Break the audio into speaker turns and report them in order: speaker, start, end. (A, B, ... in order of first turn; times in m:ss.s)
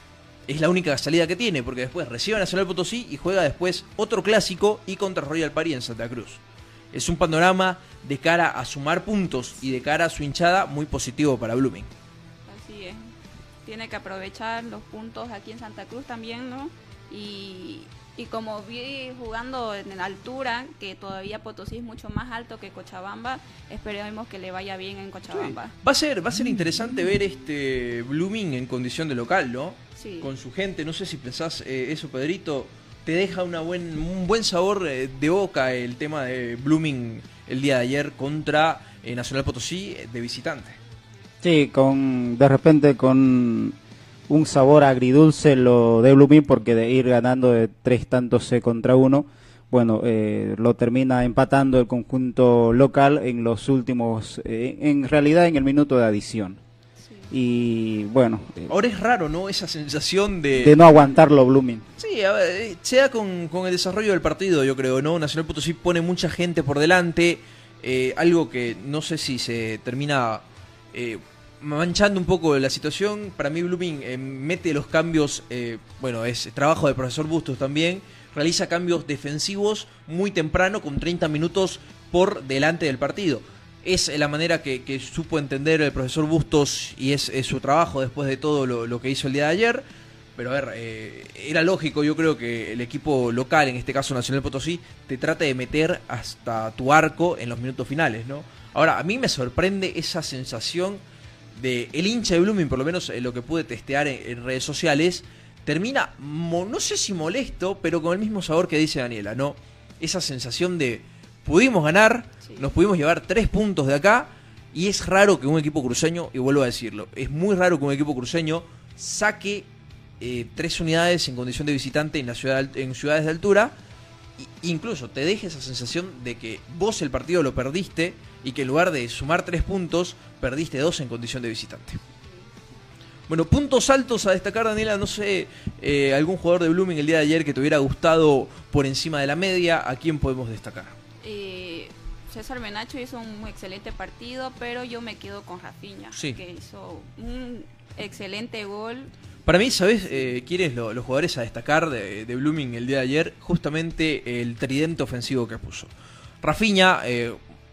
0:00.4-0:11.9 A
0:12.4-0:13.1 B
0:13.6-0:25.7 B
0:25.3-0:40.8 A
0:30.0-0:30.3 B
0:41.4-0:43.8 C
0:44.3-0:56.6 C
0:57.0-0:57.3 B
0:57.3-0:58.7 C
0:58.7-1:00.8 A
1:00.5-1:01.8 C
1:02.0-1:41.0 A
1:41.5-1:59.7 A
1:52.4-1:52.7 B
2:00.2-2:03.8 A
2:04.4-2:12.0 A
2:12.2-2:12.5 B
2:13.3-2:21.0 A
2:21.2-2:29.1 B
2:26.1-2:26.4 A
2:29.4-2:35.9 A
2:36.4-2:37.4 A